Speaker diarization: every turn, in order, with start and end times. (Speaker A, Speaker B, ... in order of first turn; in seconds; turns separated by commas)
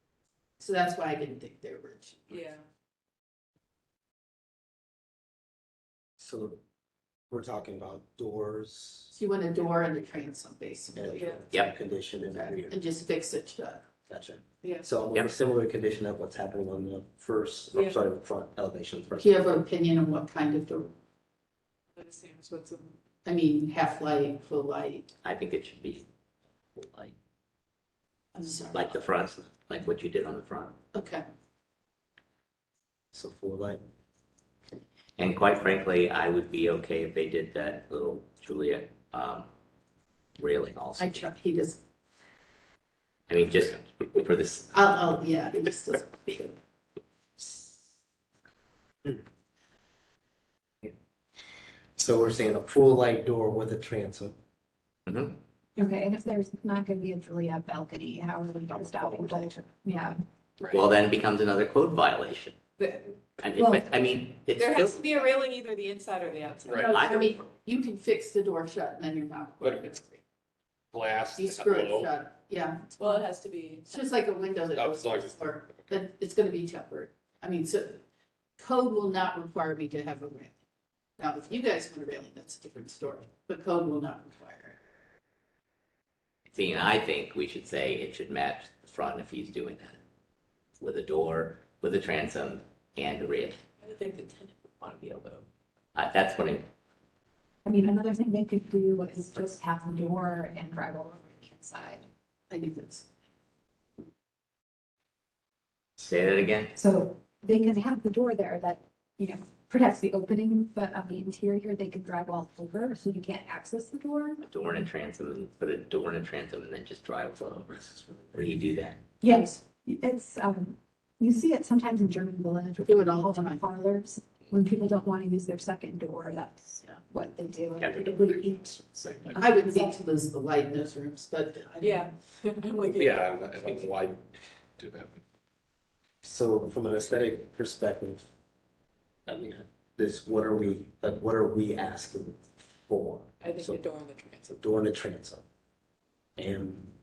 Speaker A: 0.6-2.5, Speaker B: 2.3-2.6, Speaker C: 6.2-6.6, Speaker C: 7.3-9.1, Speaker A: 9.1-11.4, Speaker C: 10.9-12.8, Speaker A: 12.3-13.8, Speaker C: 14.1-19.5, Speaker A: 19.2-20.9, Speaker B: 22.0-22.9, Speaker A: 23.2-25.1, Speaker D: 25.2-26.1, Speaker D: 26.8-27.1, Speaker A: 28.4-28.9, Speaker D: 28.7-30.8, Speaker A: 30.9-31.2, Speaker C: 33.1-33.8, Speaker D: 35.2-39.5, Speaker D: 40.4-41.2, Speaker A: 41.0-41.8, Speaker D: 43.3-44.7, Speaker A: 44.7-46.6, Speaker C: 52.0-54.4, Speaker D: 55.1-55.4, Speaker E: 55.8-60.2, Speaker C: 58.7-59.5, Speaker D: 60.7-62.6, Speaker B: 62.8-63.2, Speaker D: 63.4-65.3, Speaker E: 63.6-63.9, Speaker B: 64.6-67.4, Speaker F: 66.7-67.0, Speaker A: 66.8-70.2, Speaker D: 66.9-67.2, Speaker F: 70.9-72.1, Speaker A: 71.3-73.2, Speaker B: 73.0-74.0, Speaker A: 73.9-78.0, Speaker F: 74.7-75.9, Speaker A: 78.6-80.6, Speaker A: 81.2-84.8, Speaker D: 86.5-90.0, Speaker D: 90.8-93.6, Speaker B: 93.8-95.5, Speaker D: 96.0-96.7, Speaker E: 97.7-102.0, Speaker A: 102.5-103.0, Speaker D: 106.0-106.7, Speaker E: 106.7-114.5, Speaker D: 114.4-119.0, Speaker E: 119.2-129.9, Speaker A: 119.2-119.6, Speaker A: 122.8-123.7, Speaker A: 129.4-132.1, Speaker B: 131.8-133.9, Speaker F: 132.9-134.2, Speaker F: 134.8-135.2, Speaker C: 136.2-138.2, Speaker C: 139.3-143.8, Speaker B: 143.4-144.6, Speaker C: 144.5-145.4, Speaker C: 146.4-146.9